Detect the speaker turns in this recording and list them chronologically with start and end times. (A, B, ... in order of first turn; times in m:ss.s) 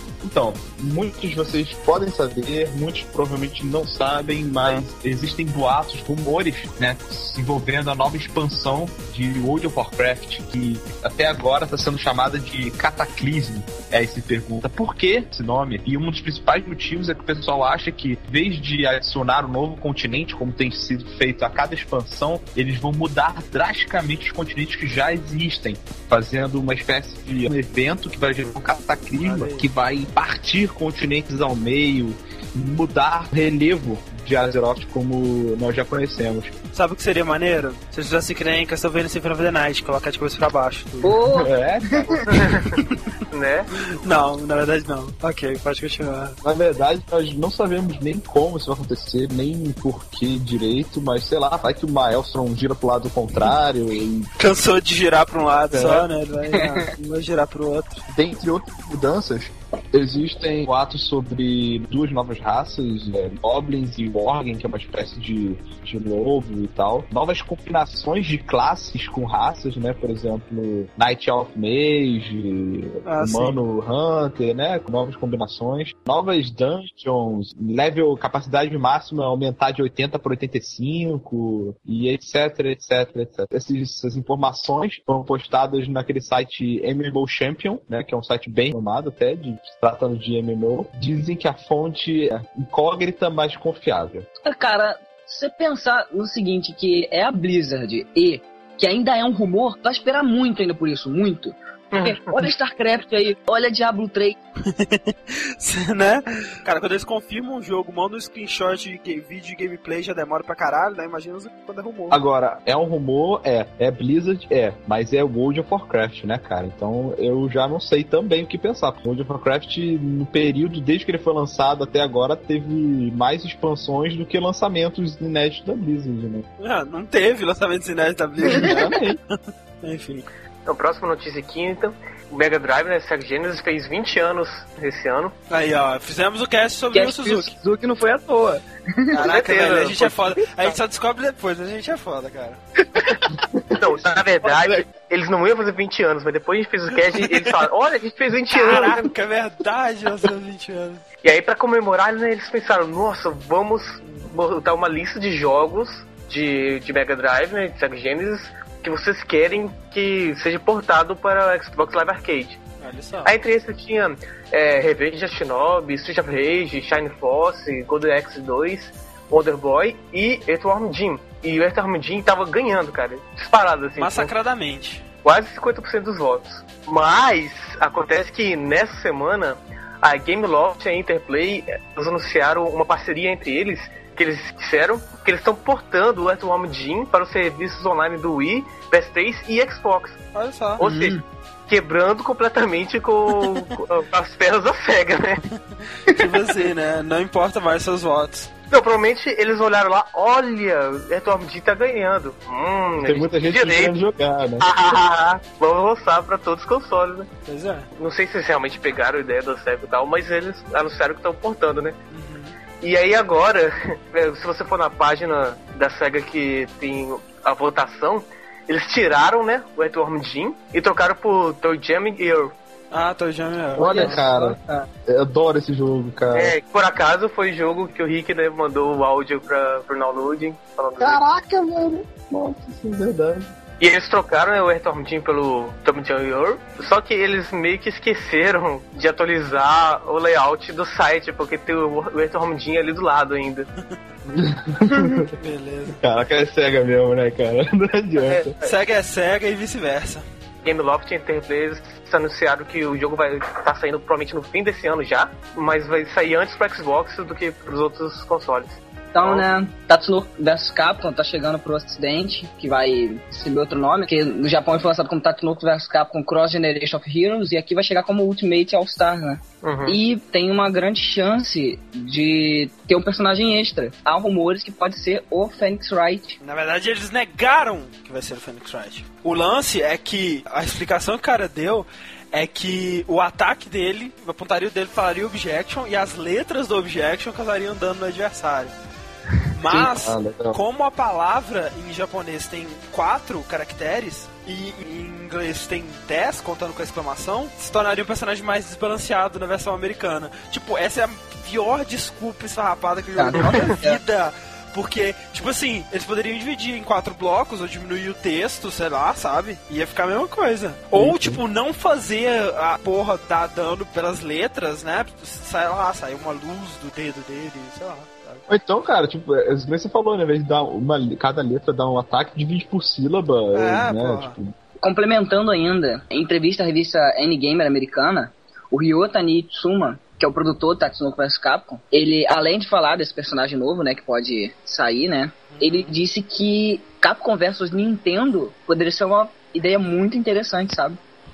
0:00.2-0:36.5 A
0:29.1-0:29.7 B
0:36.7-0:41.1 B
0:41.0-0:41.5 C
0:41.2-0:42.5 A
0:42.3-0:42.8 D
0:43.3-0:43.7 D
0:44.0-0:46.4 B
0:46.4-0:54.3 A
0:54.4-0:58.0 B
0:55.7-0:56.1 A
0:58.1-1:34.3 A
1:13.0-1:13.6 B
1:34.4-1:44.4 C
1:41.9-1:42.5 D
1:44.7-1:52.2 B
1:52.1-2:06.5 A
2:06.6-2:10.3 B
2:08.4-2:09.2 A
2:10.7-2:15.3 D
2:15.5-2:17.5 B
2:16.9-2:19.1 C
2:19.1-2:22.6 B
2:19.2-2:20.8 D
2:23.8-2:29.1 D
2:24.4-2:24.8 C
2:27.1-2:27.6 B
2:28.5-2:31.0 B
2:31.2-2:42.6 D
2:42.8-2:43.3 B
2:43.2-2:54.3 D
2:54.0-2:55.0 B
2:55.2-3:10.2 D
3:10.3-3:10.8 B
3:10.8-3:15.4 D
3:10.8-3:11.2 C
3:16.1-3:18.5 B
3:18.7-3:24.0 D
3:23.0-3:24.7 A
3:24.6-3:27.3 D
3:27.5-3:27.9 B
3:28.0-3:32.0 D
3:32.1-3:32.6 B
3:32.8-3:42.5 D
3:42.9-3:44.2 B
3:43.8-3:46.6 A
3:43.8-3:44.9 C
3:46.3-3:51.2 D
3:51.0-3:53.5 A
3:53.8-4:03.7 D
4:04.3-4:05.3 A
4:05.3-4:06.0 B
4:06.0-4:08.6 A
4:08.2-4:08.5 D
4:08.6-4:10.2 B
4:10.6-4:19.5 D
4:19.1-4:36.4 C
4:29.6-4:30.0 D
4:36.4-4:48.8 B
4:49.5-5:18.5 B
4:49.7-4:50.6 A
5:03.2-5:04.0 C
5:03.4-5:03.7 D
5:10.9-5:11.4 A
5:18.5-5:24.5 A
5:23.5-5:24.4 B
5:24.8-5:41.0 C
5:35.5-5:36.0 B